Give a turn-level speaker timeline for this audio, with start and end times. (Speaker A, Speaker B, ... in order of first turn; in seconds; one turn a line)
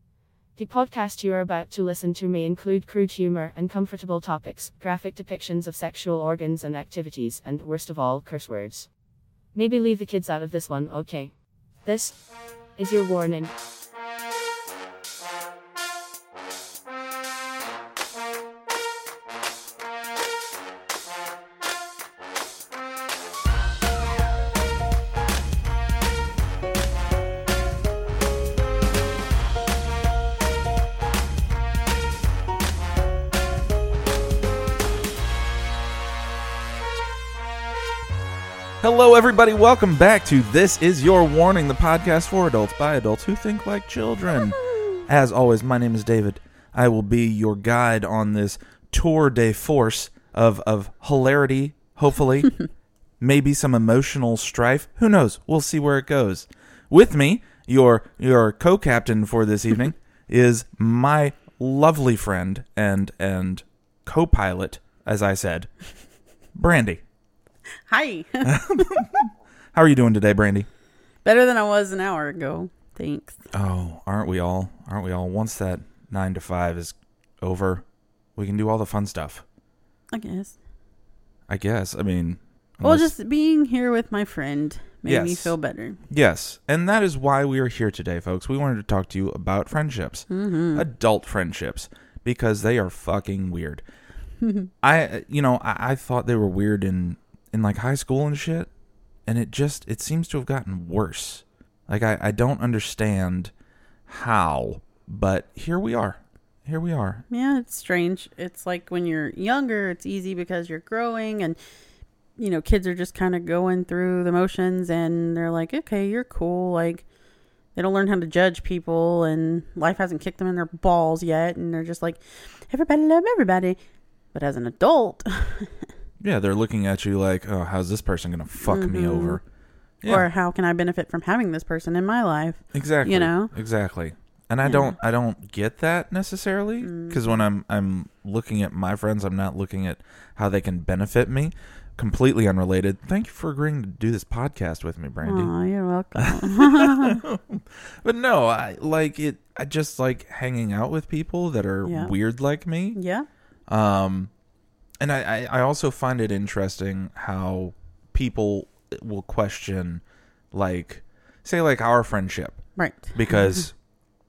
Speaker A: 0.6-8.9
Speaker A: 9.5-11.3
Speaker A: 11.8-12.2
Speaker A: 12.8-13.5
Speaker B: 38.8-52.6
Speaker B: 53.2-65.7
Speaker B: 66.5-67.0
Speaker C: 67.9-69.1
Speaker B: 68.4-70.7
Speaker C: 71.2-73.4
Speaker B: 73.5-77.8
Speaker B: 78.4-79.4
Speaker C: 80.1-80.6
Speaker B: 81.5-83.1
Speaker C: 82.8-86.0
Speaker B: 85.0-85.5
Speaker B: 86.1-93.8
Speaker C: 90.3-90.9
Speaker C: 94.4-94.7
Speaker B: 94.8-98.7
Speaker B: 99.3-103.5
Speaker B: 104.1-107.2
Speaker C: 107.3-111.6
Speaker C: 112.4-117.0
Speaker C: 117.8-123.8
Speaker C: 124.3-125.8
Speaker B: 126.2-129.4
Speaker C: 128.6-129.4
Speaker B: 130.0-130.3
Speaker C: 130.1-133.5
Speaker B: 132.7-145.5
Speaker C: 134.6-134.9
Speaker C: 136.8-137.4
Speaker C: 145.2-147.2
Speaker B: 146.2-153.0
Speaker C: 151.8-152.1
Speaker C: 152.9-153.3
Speaker B: 153.7-154.3
Speaker B: 155.0-162.6
Speaker C: 162.8-163.6
Speaker B: 163.1-163.7